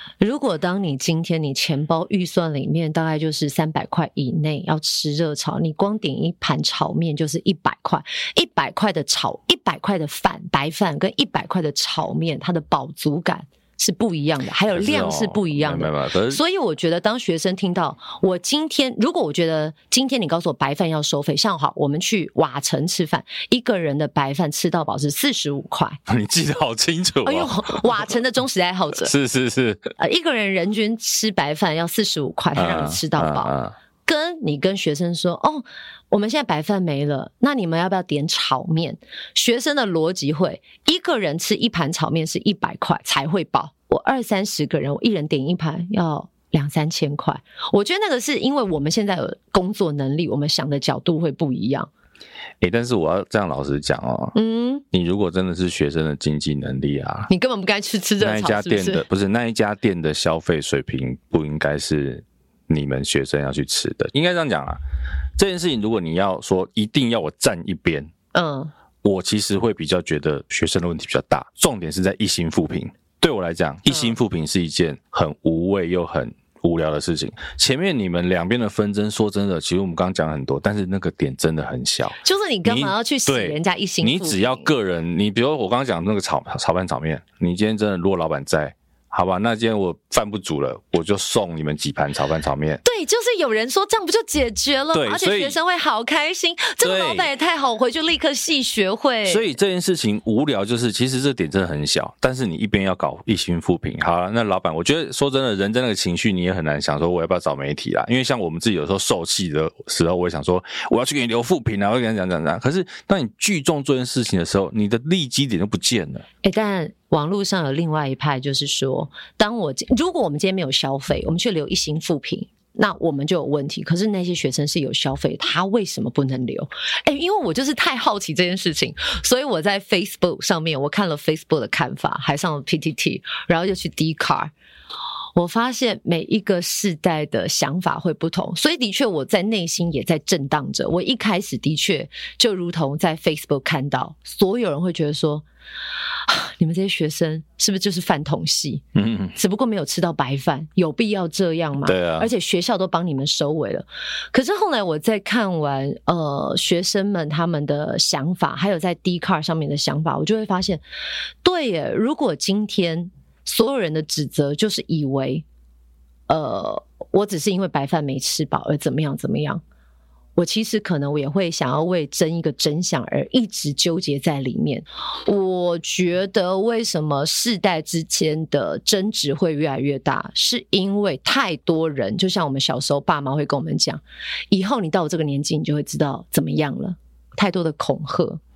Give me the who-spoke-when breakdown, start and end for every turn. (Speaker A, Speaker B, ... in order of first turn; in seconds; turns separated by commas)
Speaker A: 0.2-26.0, Speaker B: 14.7-16.4, Speaker B: 26.1-27.8, Speaker A: 27.2-29.1, Speaker B: 29.0-29.9, Speaker A: 30.0-33.5, Speaker B: 32.5-33.7, Speaker A: 34.0-51.9, Speaker B: 52.6-54.4, Speaker A: 54.3-54.8, Speaker B: 54.9-57.3, Speaker A: 57.3-59.0, Speaker B: 58.2-64.8, Speaker B: 65.4-68.1, Speaker A: 68.3-68.7, Speaker B: 69.0-92.8, Speaker A: 73.9-74.2, Speaker A: 82.2-84.7, Speaker A: 92.8-99.5, Speaker B: 94.9-95.6, Speaker B: 96.8-97.3, Speaker B: 99.2-116.2, Speaker A: 116.4-134.5, Speaker A: 135.3-145.4, Speaker A: 146.3-160.8, Speaker B: 148.9-149.3, Speaker B: 151.8-152.3, Speaker A: 161.4-165.4, Speaker A: 166.3-169.6, Speaker A: 170.3-188.4